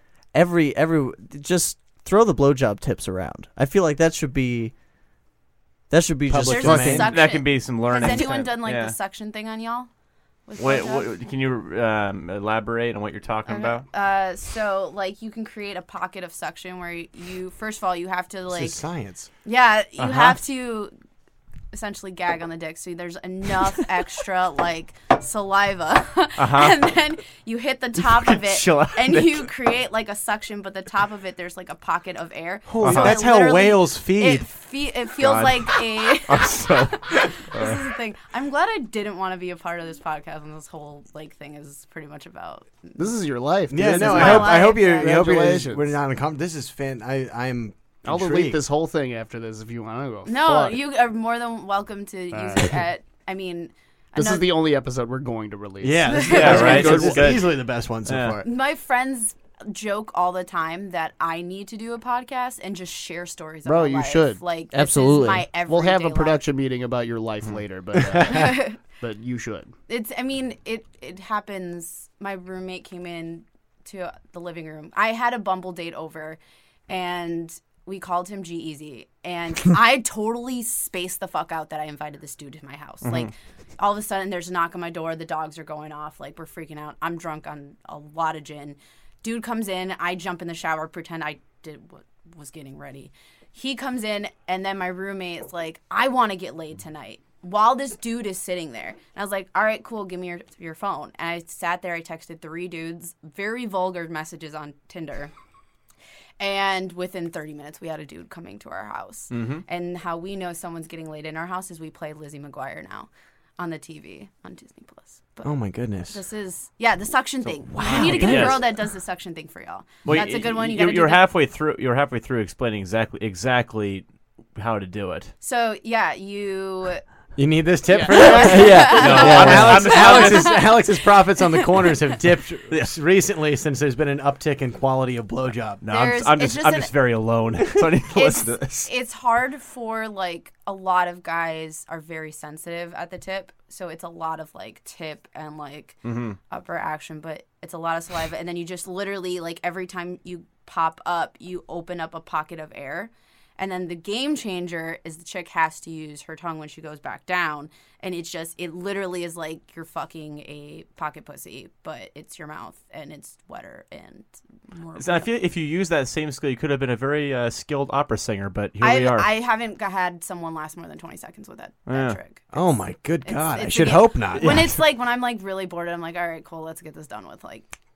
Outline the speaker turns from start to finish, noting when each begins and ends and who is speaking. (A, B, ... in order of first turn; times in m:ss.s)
0:00.3-0:04.7 A
0:05.9-0:07.2 A
0:06.3-0:07.2 B
0:06.4-0:09.9 C
0:07.1-0:08.9 D
0:10.5-0:11.1 C
0:10.6-0:13.8 D
0:13.5-0:18.8 C
0:18.5-0:19.3 B
0:19.4-0:20.9 C
0:20.0-0:20.4 D
0:21.7-0:43.0 C
0:26.4-0:26.8 D
0:28.0-0:29.5 D
0:32.7-0:34.5 B
0:32.8-0:33.2 D
0:35.2-0:37.8 D
0:43.0-0:45.9 E
0:43.7-0:48.6 B
0:43.9-0:45.1 C
0:48.0-0:50.8 E
0:50.2-0:54.5 C
0:52.3-0:52.7 E
0:54.1-0:57.4 E
0:55.8-0:58.4 B
0:56.0-0:57.0 C
0:56.3-0:57.5 D
0:58.0-0:58.4 D
0:58.4-1:06.4 C
1:03.6-1:04.4 E
1:04.7-1:05.5 A
1:05.6-1:09.7 E
1:08.0-1:08.3 B
1:08.3-1:08.8 C
1:09.9-1:16.4 C
1:16.9-1:45.3 C
1:23.0-1:23.3 D
1:46.4-1:55.6 C
1:49.3-1:49.6 D
1:55.4-1:56.2 B
1:56.1-2:01.2 C
1:57.7-1:58.6 B
1:57.8-1:58.6 D
1:57.8-1:58.5 A
2:00.0-2:05.3 D
2:05.4-2:07.0 C
2:07.4-2:15.8 B
2:08.1-2:11.9 C
2:08.2-2:09.9 A
2:08.8-2:10.6 D
2:15.8-2:18.9 D
2:15.9-2:16.9 C
2:18.1-2:45.3 C
2:26.0-2:26.4 D
2:45.0-2:49.3 D
2:48.8-2:52.5 C
2:51.9-2:52.2 D
2:52.5-2:54.7 B
2:53.2-2:57.7 C